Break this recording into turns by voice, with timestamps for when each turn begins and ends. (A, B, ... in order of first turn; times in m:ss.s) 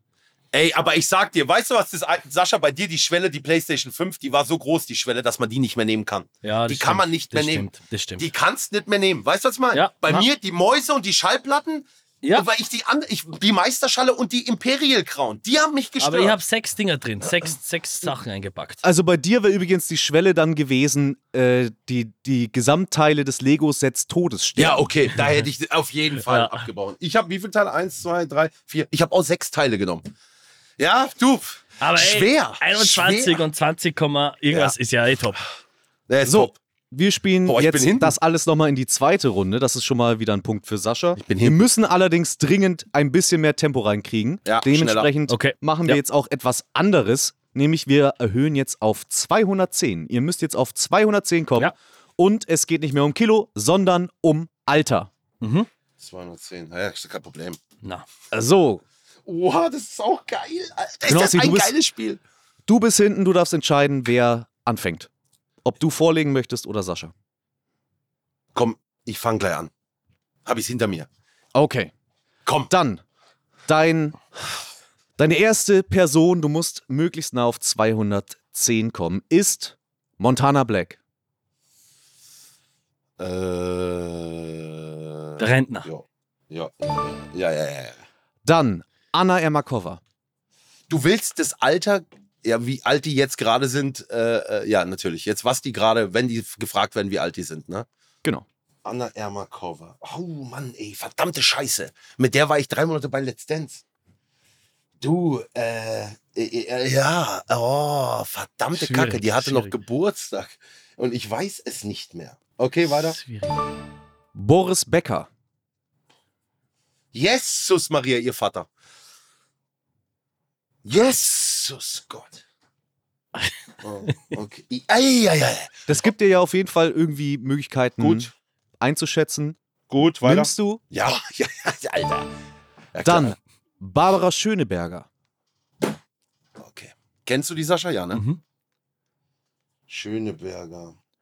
0:00.5-0:16.4 A
0:06.4-0:08.2 B
0:09.7-0:10.2 B
0:16.0-0:18.8 B
0:18.8-0:24.9 C
0:24.6-0:30.0 A
0:26.2-0:26.6 B
0:30.8-0:33.4 A
0:31.8-0:35.4 B
0:36.1-0:36.5 A
0:36.2-0:55.1 C
0:37.4-0:38.1 A
0:41.2-0:41.7 A
0:44.4-0:45.1 A
0:45.3-0:46.0 B
0:55.4-0:55.7 B
0:56.0-0:57.6 A
0:58.3-0:58.8 C
0:59.2-1:02.2 A
1:01.0-1:01.7 C
1:02.7-1:05.1 C
1:05.6-1:07.1 C
1:08.5-1:09.7 A
1:10.4-1:11.1 A
1:11.5-1:11.9 C
1:12.4-1:12.7 A
1:12.7-1:13.0 C
1:13.7-1:14.2 C
1:15.2-1:21.0 C
1:23.2-1:28.0 A
1:25.4-1:25.9 B
1:28.4-1:30.0 C
1:30.9-1:37.8 A
1:38.8-1:43.8 A
1:45.0-1:53.2 A
1:48.7-1:49.8 B
1:53.1-1:53.6 B
1:54.3-1:55.3 C
1:57.1-1:58.7 A
2:00.8-2:02.4 A
2:03.8-2:05.8 A
2:05.9-2:09.6 C
2:08.0-2:08.3 A
2:09.9-2:12.3 A
2:10.2-2:10.8 C
2:12.9-2:13.4 A
2:13.0-2:15.1 C
2:16.6-2:18.2 A
2:18.1-2:18.4 B
2:19.9-2:20.9 A